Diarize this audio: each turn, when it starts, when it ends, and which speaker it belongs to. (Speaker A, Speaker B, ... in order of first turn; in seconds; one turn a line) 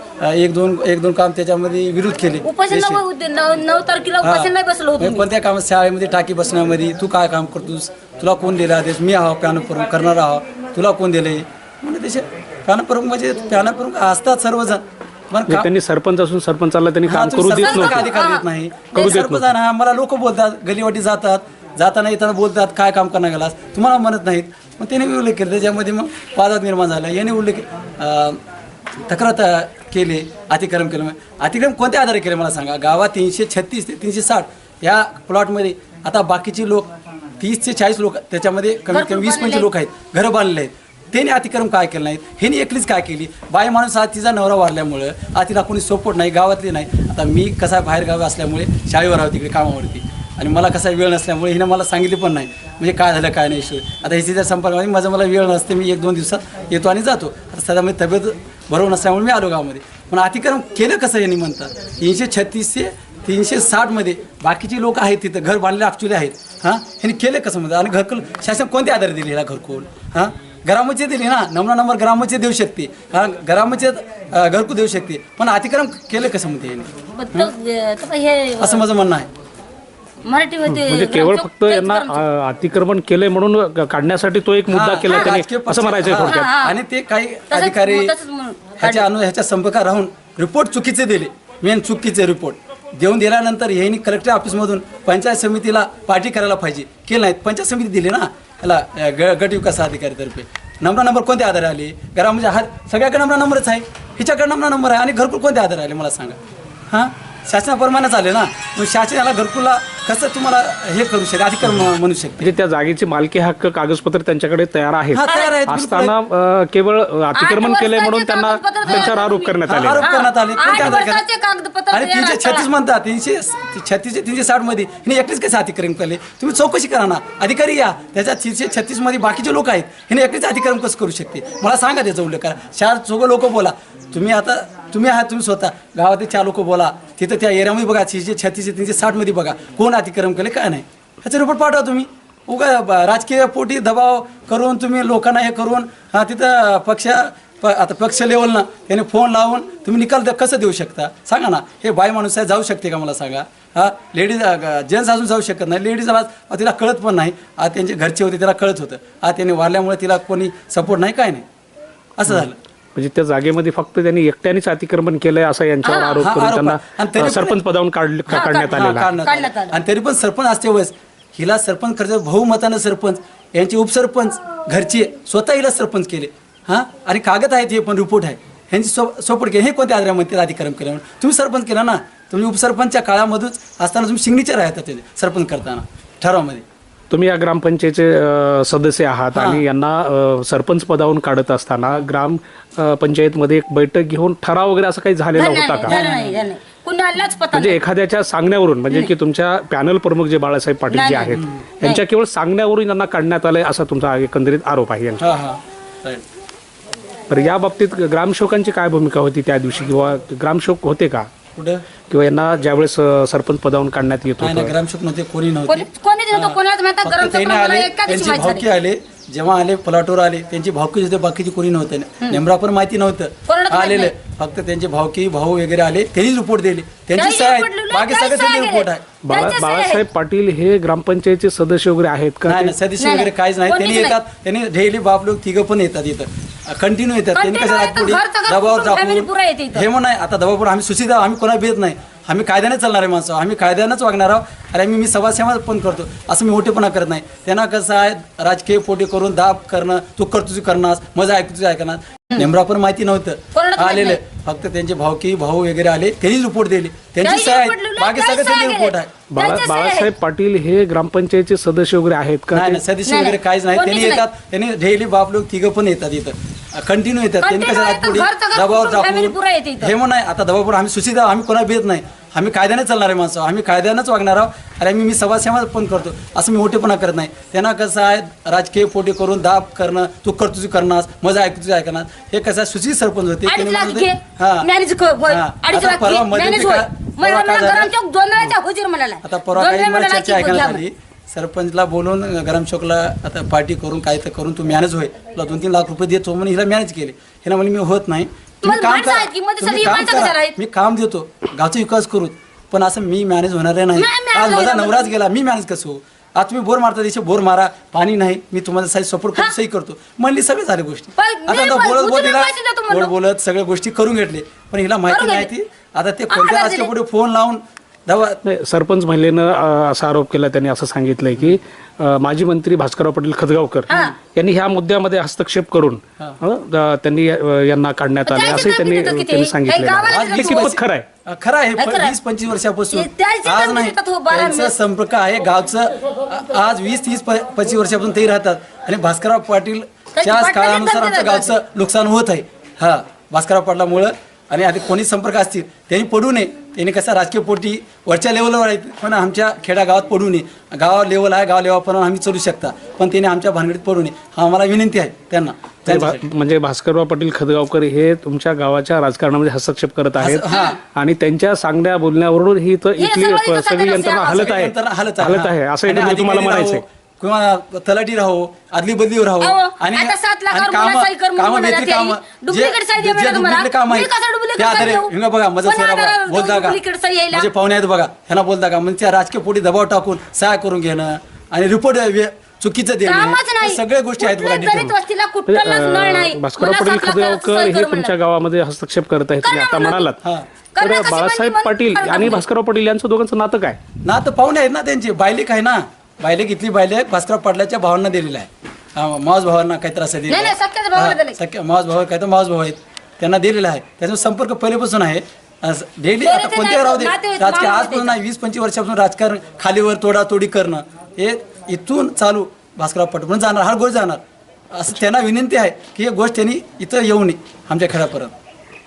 Speaker A: 0.2-3.0
Speaker B: 2.4-5.2
Speaker A: 4.2-15.7
Speaker C: 15.5-18.1
Speaker A: 17.1-28.4
Speaker B: 17.6-18.4
Speaker C: 18.9-19.5
Speaker A: 29.0-77.5
Speaker B: 38.9-39.7
Speaker B: 77.2-78.8
Speaker A: 78.6-79.3
Speaker B: 80.2-82.2
Speaker C: 80.7-86.5
Speaker A: 84.7-88.1
Speaker B: 86.2-86.8
Speaker B: 87.5-89.1
Speaker A: 88.8-106.4
Speaker A: 106.9-112.5
Speaker C: 112.4-120.0
Speaker A: 115.1-116.2
Speaker B: 115.2-115.6
Speaker B: 117.3-122.7
Speaker A: 119.7-121.2
Speaker A: 121.9-161.4
Speaker A: 162.2-162.6
Speaker C: 162.9-169.1
Speaker B: 165.8-166.3
Speaker A: 166.2-167.6
Speaker A: 168.3-186.6
Speaker B: 168.3-169.8
Speaker C: 187.1-196.0
Speaker A: 189.3-189.6
Speaker B: 195.3-197.8
Speaker A: 195.8-196.4
Speaker C: 197.5-205.2
Speaker B: 200.9-202.0
Speaker A: 201.3-201.7
Speaker A: 205.2-206.2
Speaker C: 207.3-211.3
Speaker A: 211.6-211.8
Speaker C: 212.1-214.7
Speaker A: 214.4-229.1
Speaker B: 215.7-218.6
Speaker B: 223.5-224.1
Speaker B: 227.2-230.0
Speaker C: 229.2-232.8
Speaker A: 232.5-259.1
Speaker B: 233.0-234.2
Speaker B: 237.3-239.8
Speaker B: 253.5-254.2
Speaker B: 257.2-260.1
Speaker C: 259.3-262.8
Speaker A: 262.5-284.7
Speaker B: 263.1-264.2
Speaker B: 267.4-269.9
Speaker B: 283.5-290.8
Speaker A: 285.3-287.9
Speaker A: 289.2-318.4
Speaker B: 298.6-300.6
Speaker B: 303.9-305.1
Speaker B: 311.2-313.1
Speaker B: 315.1-315.5
Speaker B: 316.3-316.9
Speaker C: 318.4-331.1
Speaker B: 323.9-324.2
Speaker B: 328.3-330.7
Speaker A: 330.1-356.2
Speaker B: 331.8-332.2
Speaker B: 332.9-334.7
Speaker B: 340.2-341.5
Speaker C: 355.9-366.8
Speaker A: 360.2-360.8
Speaker B: 360.5-360.8
Speaker B: 363.0-364.6
Speaker A: 364.3-376.8
Speaker B: 369.4-375.1
Speaker B: 375.6-377.5
Speaker A: 377.3-384.9
Speaker B: 383.0-388.1
Speaker C: 385.5-390.2
Speaker B: 389.4-390.1
Speaker A: 390.2-390.5
Speaker B: 390.8-392.4
Speaker C: 390.8-393.8
Speaker A: 394.1-414.2
Speaker B: 400.3-401.4
Speaker B: 406.2-408.2
Speaker A: 414.7-418.3